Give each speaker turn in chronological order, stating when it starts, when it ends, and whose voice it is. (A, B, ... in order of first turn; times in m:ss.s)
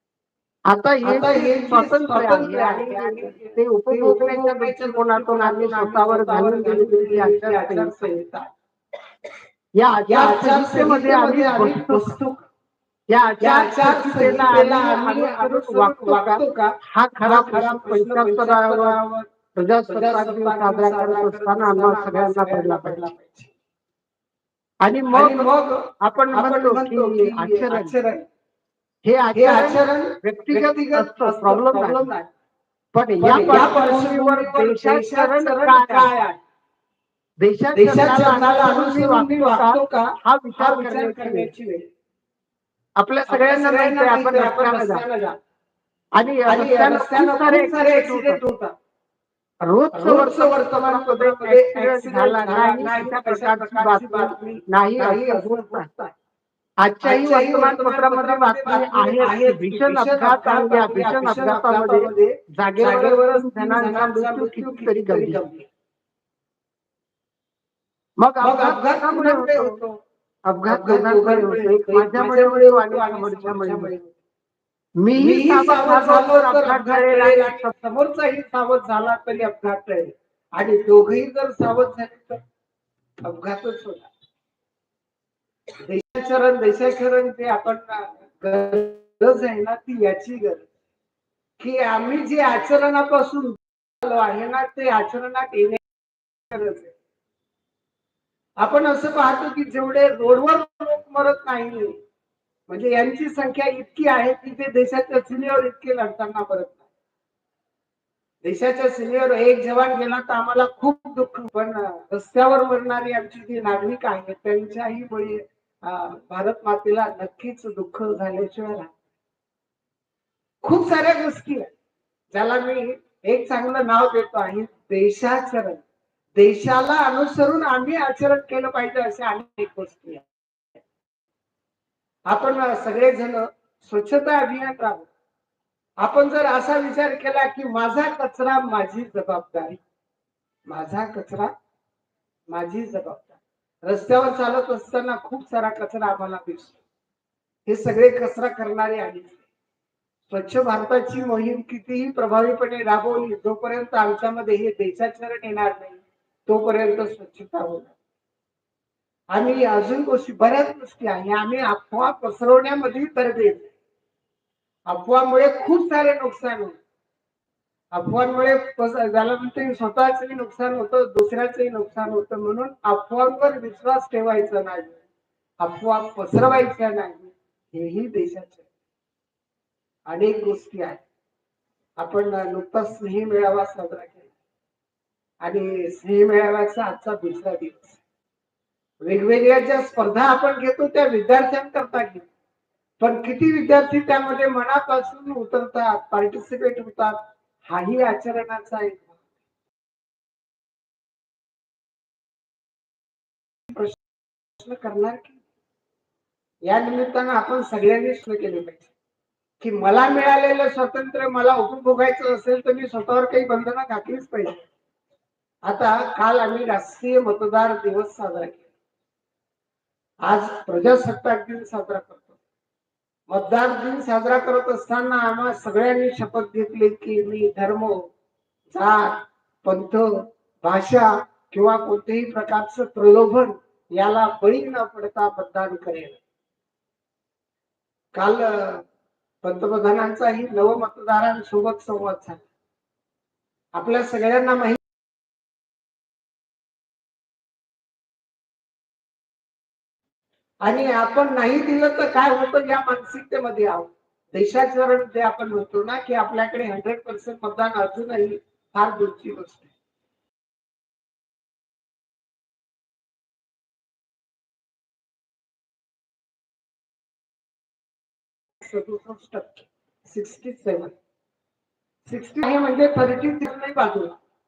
0:00.7-0:08.1 A
0:01.0-0:08.5 B
0:09.8-0:12.1 A
0:10.1-0:12.5 B
0:13.1-0:16.4 A
0:13.4-0:19.3 B
0:16.9-0:19.0 A
0:19.6-0:23.1 A
0:19.9-0:23.5 B
0:24.8-0:25.5 A
0:25.1-0:28.3 B
0:26.0-0:27.9 A
0:29.0-0:32.0 A
0:29.4-0:32.3 B
0:33.0-0:36.1 A
0:33.2-0:36.4 B
0:37.4-0:41.5 A
0:37.7-0:41.8 B
0:43.0-0:45.0 A
0:43.3-0:45.4 B
0:46.2-0:48.4 A
0:46.5-0:48.7 B
0:49.6-0:55.9 A
0:49.9-0:56.1 B
0:56.8-1:05.4 A
0:57.0-1:05.7 B
1:08.2-1:09.8 A
1:08.4-1:10.0 B
1:10.5-1:13.9 A
1:10.7-1:14.2 B
1:15.0-1:17.7 A
1:15.2-1:22.4 B
1:23.2-1:24.1 B
1:25.8-1:30.7 B
1:31.6-1:35.8 B
1:36.5-1:36.9 B
1:38.6-1:42.0 B
1:42.7-1:46.8 B
1:48.4-1:58.9 B
2:00.6-2:01.7 B
2:02.3-2:05.8 B
2:06.4-2:10.2 B
2:12.3-2:15.1 B
2:16.0-2:19.8 B
2:20.7-2:21.5 B
2:22.5-2:26.8 B
2:27.7-2:29.4 B
2:30.3-2:37.9 B
2:39.3-2:43.7 B
2:44.9-2:46.8 B
2:47.9-2:55.0 B
2:55.6-2:58.6 B
3:00.1-3:01.0 B
3:02.0-3:04.3 B
3:05.4-3:08.0 B
3:09.0-3:12.3 B
3:13.0-3:19.2 B
3:23.7-3:24.0 B
3:24.6-3:25.4 B
3:26.6-3:28.9 B
3:29.6-3:34.6 B
3:35.7-3:38.7 B
3:40.2-3:42.4 B
3:43.3-3:48.0 B
3:48.7-3:50.1 B
3:50.6-3:56.2 B
3:58.1-3:58.9 B
3:59.4-4:02.5 B
4:03.8-4:04.8 B
4:10.6-4:19.7 B
4:28.6-4:30.9 B
4:32.0-4:34.2 B